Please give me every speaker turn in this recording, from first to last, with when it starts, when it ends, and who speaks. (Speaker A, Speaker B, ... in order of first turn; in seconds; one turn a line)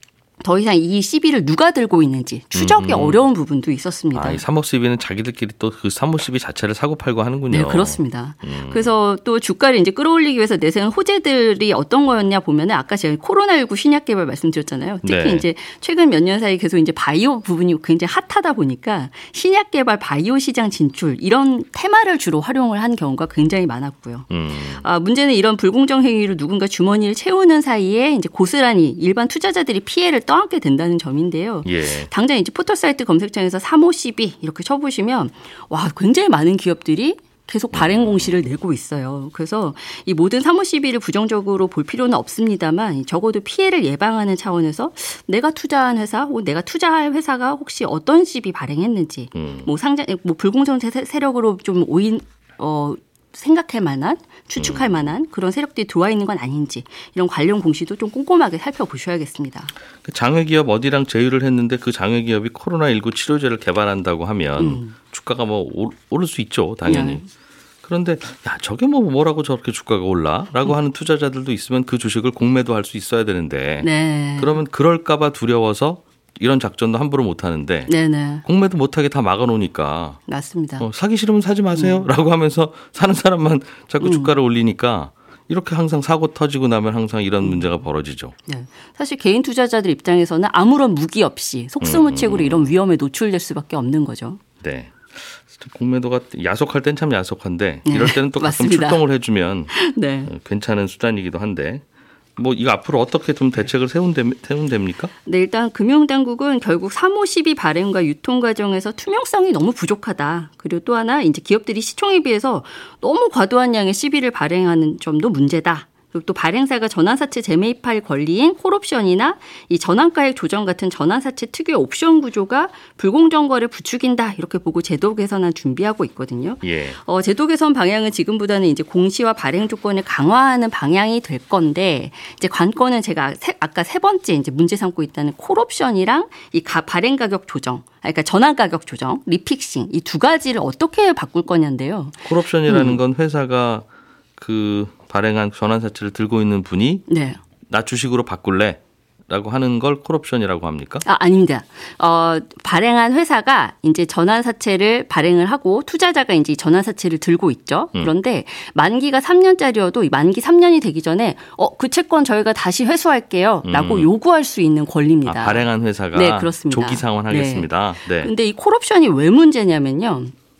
Speaker A: 0.4-4.4
Speaker B: 2.5-3.2
Speaker B: 4.1-8.9
Speaker A: 7.5-59.7
Speaker B: 15.0-15.4
Speaker B: 24.3-24.8
Speaker B: 31.6-32.1
Speaker B: 37.7-38.3
Speaker B: 49.3-49.7
Speaker B: 54.6-55.0
Speaker B: 60.0-67.2
Speaker A: 64.6-64.9
Speaker A: 66.8-67.2
Speaker B: 67.8-80.2
Speaker A: 73.8-74.6
Speaker A: 77.9-78.4
Speaker A: 80.3-80.8
Speaker B: 80.8-88.3
Speaker A: 81.7-82.1
Speaker A: 84.0-84.3
Speaker A: 87.4-87.7
Speaker A: 88.5-94.4
Speaker B: 91.8-92.6
Speaker B: 94.6-101.8
Speaker A: 97.8-99.0
Speaker A: 99.7-100.3
Speaker B: 102.4-105.1
Speaker A: 105.2-143.0
Speaker B: 126.6-127.0
Speaker B: 142.2-143.8
Speaker B: 144.4-147.1
Speaker A: 147.1-147.4
Speaker B: 147.7-151.0
Speaker A: 151.0-170.3
Speaker B: 163.7-164.1
Speaker B: 165.2-168.3